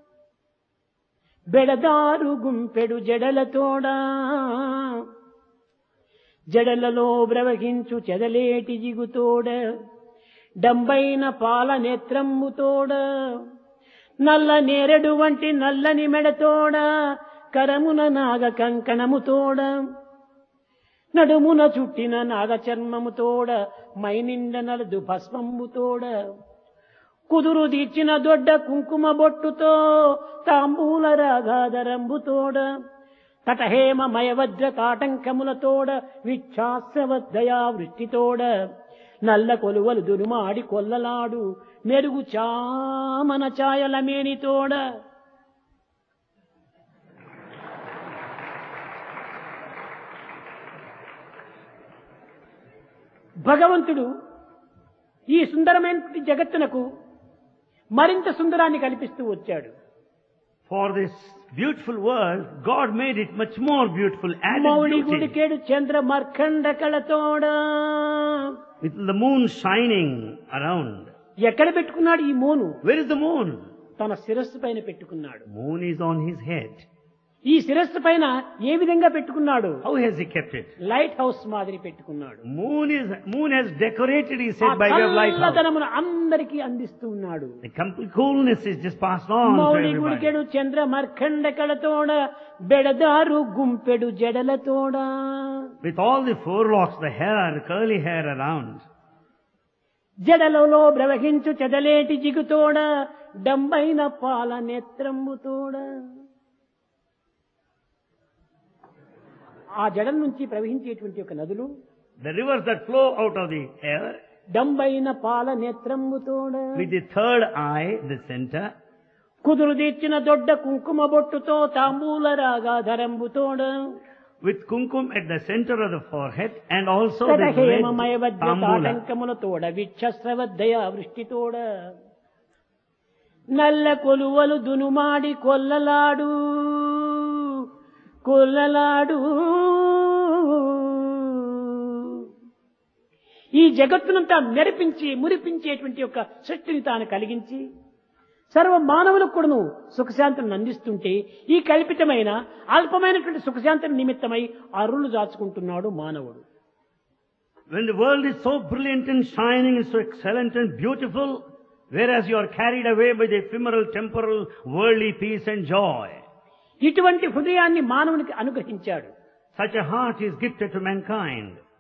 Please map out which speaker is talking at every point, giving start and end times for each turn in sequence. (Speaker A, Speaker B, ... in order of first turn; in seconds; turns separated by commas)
Speaker A: 1.5-5.0, Speaker A: 6.5-9.6, Speaker A: 10.6-13.0, Speaker A: 14.2-16.9, Speaker A: 17.5-19.8, Speaker A: 21.2-26.1, Speaker A: 27.3-32.7, Speaker A: 33.5-38.5, Speaker A: 39.3-44.8, Speaker A: 53.5-54.1, Speaker A: 55.3-56.8, Speaker A: 58.0-59.7, Speaker B: 60.7-65.3, Speaker A: 64.5-68.5, Speaker B: 68.8-71.1, Speaker A: 71.4-72.8, Speaker B: 72.8-73.6, Speaker A: 74.0-75.5, Speaker B: 75.5-76.8, Speaker A: 77.5-79.8, Speaker B: 79.8-80.7, Speaker A: 80.8-82.4, Speaker B: 82.5-85.6, Speaker A: 84.6-87.6, Speaker B: 87.6-90.3, Speaker A: 89.5-95.7, Speaker B: 95.8-98.8, Speaker A: 100.3-102.9, Speaker A: 103.5-105.9, Speaker A: 109.8-111.7, Speaker B: 112.2-114.2, Speaker A: 114.6-116.8, Speaker B: 116.8-118.7, Speaker A: 119.5-123.7, Speaker B: 124.4-129.0, Speaker A: 127.2-131.6, Speaker A: 133.6-137.6, Speaker A: 138.2-142.2, Speaker A: 143.6-147.6, Speaker A: 148.5-156.4, Speaker B: 157.7-166.2, Speaker A: 166.8-169.1, Speaker B: 169.6-171.6